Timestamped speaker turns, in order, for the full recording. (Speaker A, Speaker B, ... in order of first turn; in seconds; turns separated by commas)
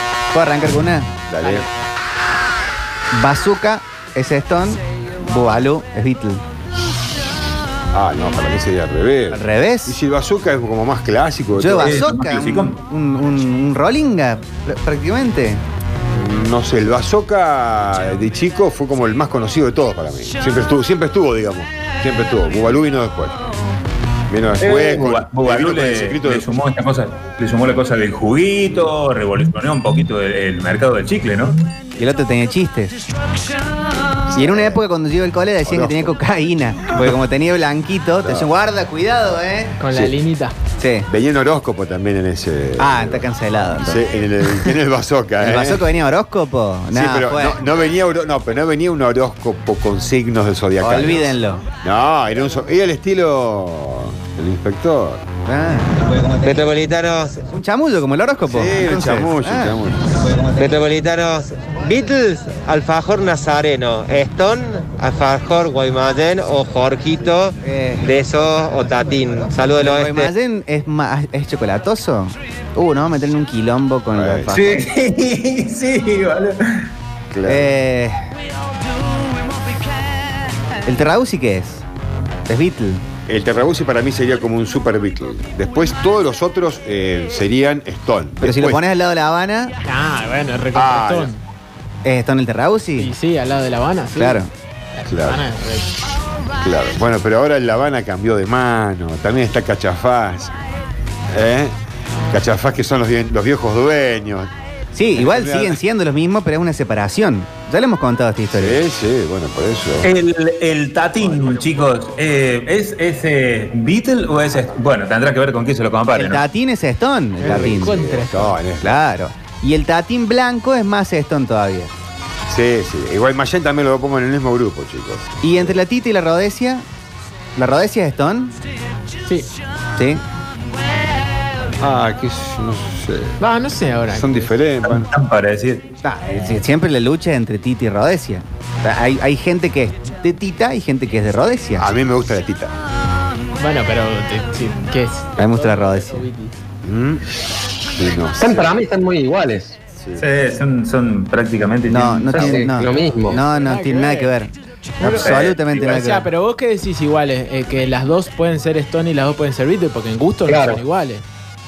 Speaker A: 0.3-1.6, Speaker B: 1.3-1.7, Speaker A: 3.1-6.4, Speaker B: 7.9-12.2, Speaker A: 9.3-9.9, Speaker A: 11.5-15.6, Speaker C: 11.7-12.8, Speaker B: 16.1-23.4, Speaker B: 24.3-26.5, Speaker C: 24.6-31.5, Speaker A: 32.0-32.9, Speaker B: 34.3-34.8, Speaker A: 34.3-39.7, Speaker B: 35.6-36.1, Speaker B: 38.2-38.5, Speaker D: 39.8-40.5, Speaker A: 40.8-41.1, Speaker B: 41.1-45.9, Speaker A: 42.8-44.0, Speaker A: 45.4-47.6, Speaker B: 46.9-55.2, Speaker A: 50.8-51.6, Speaker A: 55.5-56.0, Speaker E: 56.1-57.4, Speaker A: 57.5-59.8, Speaker B: 58.5-60.0, Speaker E: 60.3-70.3, Speaker A: 67.6-68.2, Speaker A: 69.8-74.8, Speaker B: 74.1-74.6, Speaker C: 74.5-76.5, Speaker B: 77.3-77.7, Speaker A: 77.4-78.3, Speaker A: 80.8-81.8, Speaker A: 82.5-83.0, Speaker B: 83.3-88.8, Speaker A: 88.4-89.7, Speaker D: 89.8-91.4, Speaker B: 90.7-91.3, Speaker A: 92.0-93.1, Speaker D: 93.0-94.4, Speaker A: 94.2-94.5, Speaker D: 95.0-96.0, Speaker B: 95.1-95.4, Speaker B: 96.6-100.5, Speaker B: 101.3-101.7, Speaker B: 102.3-104.5, Speaker A: 104.9-108.8, Speaker B: 105.2-105.8, Speaker B: 108.5-110.1, Speaker C: 110.0-116.4, Speaker A: 116.1-118.0, Speaker D: 117.4-118.6, Speaker B: 117.4-119.0, Speaker A: 118.8-121.9, Speaker B: 122.5-125.2, Speaker A: 125.4-126.8, Speaker A: 127.5-128.6, Speaker A: 130.0-130.2, Speaker B: 131.8-133.4, Speaker D: 133.4-134.6, Speaker B: 134.1-135.0, Speaker C: 134.8-135.9, Speaker A: 136.0-141.9, Speaker B: 141.8-142.7, Speaker D: 143.6-146.5, Speaker A: 145.4-146.2, Speaker B: 146.8-147.2, Speaker B: 147.9-148.8, Speaker F: 148.3-149.8, Speaker B: 149.9-150.2, Speaker C: 150.2-152.7, Speaker A: 151.9-156.3, Speaker F: 152.3-153.4, Speaker D: 152.8-154.3, Speaker D: 155.0-161.2, Speaker C: 155.2-155.6, Speaker F: 160.5-160.8